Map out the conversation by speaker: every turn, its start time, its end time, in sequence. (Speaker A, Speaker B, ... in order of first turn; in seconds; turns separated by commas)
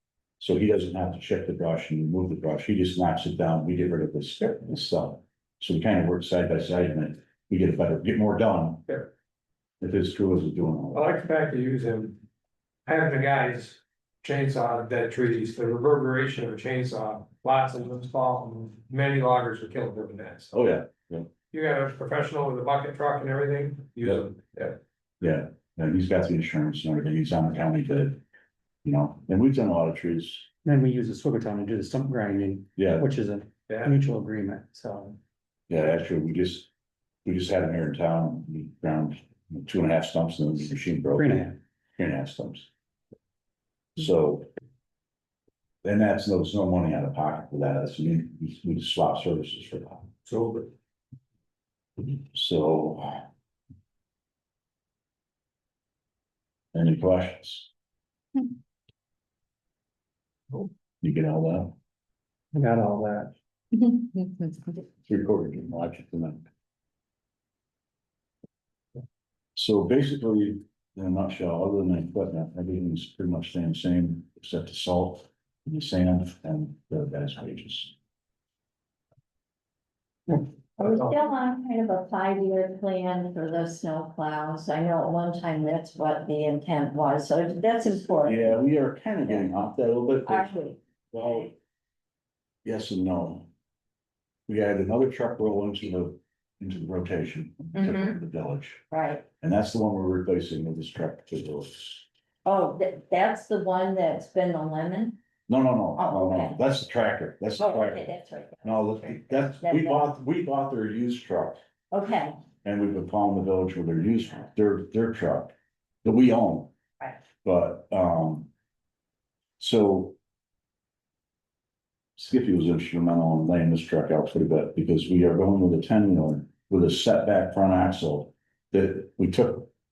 Speaker A: 0.4-8.9, Speaker A: 9.8-11.2, Speaker B: 10.9-12.2, Speaker B: 12.8-20.5, Speaker A: 20.5-21.3, Speaker B: 21.5-24.8, Speaker A: 25.2-28.2, Speaker A: 28.8-30.5, Speaker C: 30.6-35.2, Speaker A: 32.8-33.1, Speaker B: 33.7-34.0, Speaker A: 35.7-36.7, Speaker A: 37.2-41.5, Speaker C: 41.1-41.6, Speaker A: 42.0-42.7, Speaker A: 44.0-44.5, Speaker A: 45.8-50.1, Speaker B: 50.2-50.7, Speaker A: 52.0-53.2, Speaker A: 56.7-57.7, Speaker A: 61.0-61.8, Speaker C: 62.5-63.3, Speaker D: 64.2-64.6, Speaker A: 65.1-66.5, Speaker A: 69.6-77.9, Speaker D: 80.8-88.6, Speaker A: 88.2-90.6, Speaker D: 90.3-91.5, Speaker A: 91.1-91.5, Speaker A: 92.7-93.5, Speaker A: 94.5-98.9, Speaker D: 97.8-98.2, Speaker D: 98.9-99.3, Speaker A: 99.4-102.1, Speaker D: 102.5-105.2, Speaker A: 105.5-108.1, Speaker D: 106.0-106.6, Speaker D: 107.6-110.1, Speaker A: 108.6-111.6, Speaker D: 111.9-112.4, Speaker A: 112.6-116.7, Speaker A: 117.4-118.5, Speaker A: 119.6-120.2, Speaker A: 122.2-129.7